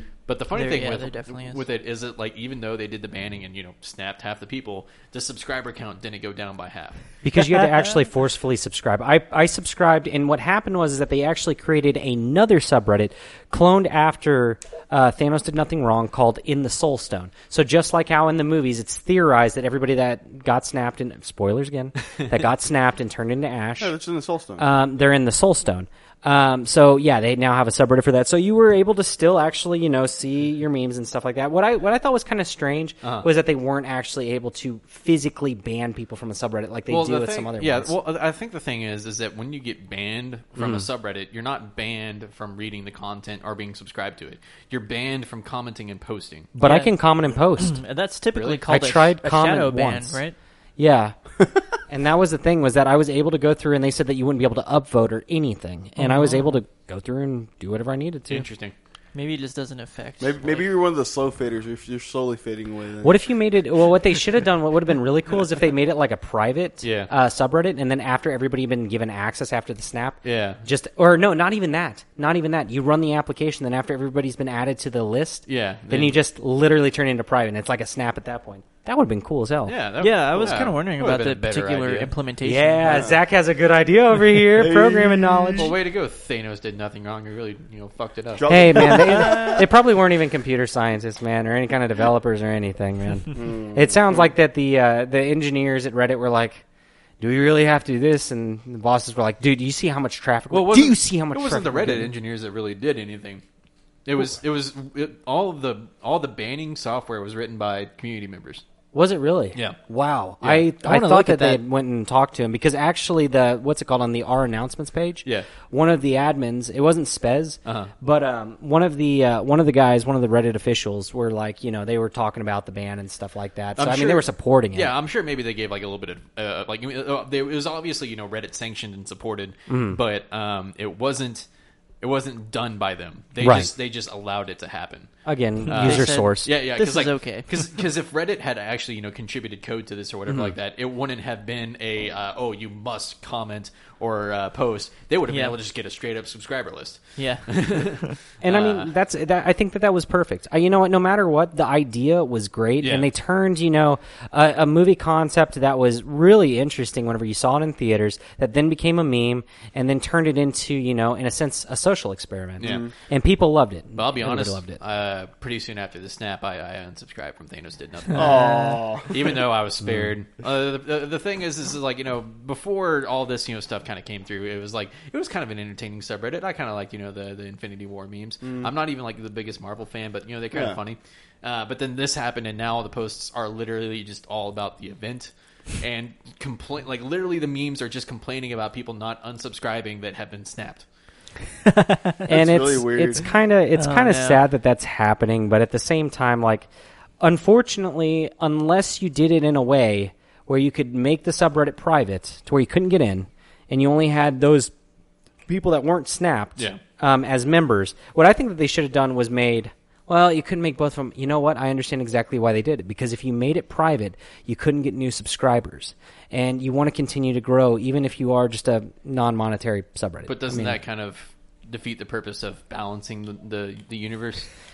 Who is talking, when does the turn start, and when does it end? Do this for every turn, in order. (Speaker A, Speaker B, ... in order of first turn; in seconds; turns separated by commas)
Speaker A: 0.3-7.0, Speaker B: 0.5-1.6, Speaker C: 7.2-23.9, Speaker D: 23.8-24.6, Speaker C: 24.6-37.9, Speaker A: 36.9-46.5, Speaker C: 40.6-40.8, Speaker C: 46.5-47.8, Speaker B: 46.6-46.9, Speaker B: 47.6-50.4, Speaker A: 48.3-48.6, Speaker C: 48.6-50.2, Speaker C: 50.8-51.1, Speaker C: 51.8-58.5, Speaker B: 56.0-56.5, Speaker A: 58.3-58.7, Speaker B: 59.1-60.6, Speaker D: 60.2-63.2, Speaker C: 63.0-79.8, Speaker A: 66.8-67.1, Speaker A: 70.2-70.6, Speaker A: 75.5-76.2, Speaker A: 79.7-82.1, Speaker B: 80.0-83.1, Speaker C: 82.4-85.7, Speaker D: 82.8-83.2, Speaker D: 84.5-85.7, Speaker A: 85.5-89.5, Speaker D: 88.3-89.6, Speaker C: 88.5-96.6, Speaker D: 93.3-94.3, Speaker C: 97.2-102.1, Speaker A: 100.5-103.4, Speaker A: 104.0-108.6, Speaker C: 108.9-124.9, Speaker A: 110.4-110.7, Speaker B: 110.8-111.6, Speaker A: 117.6-117.9, Speaker A: 123.8-131.4, Speaker C: 129.7-130.0, Speaker A: 132.0-135.1, Speaker C: 133.4-133.7, Speaker C: 135.2-136.5, Speaker A: 135.7-148.9, Speaker B: 135.7-137.5, Speaker B: 145.3-145.6, Speaker B: 147.2-148.1, Speaker C: 148.4-164.8, Speaker A: 152.8-153.1, Speaker A: 162.6-162.9, Speaker D: 162.6-162.9, Speaker A: 163.9-190.8, Speaker D: 168.1-169.4, Speaker C: 169.8-170.1, Speaker D: 180.5-180.8, Speaker C: 192.2-196.7, Speaker D: 192.3-193.3, Speaker B: 193.8-194.4, Speaker C: 197.2-204.7, Speaker C: 205.5-220.8, Speaker A: 220.2-224.5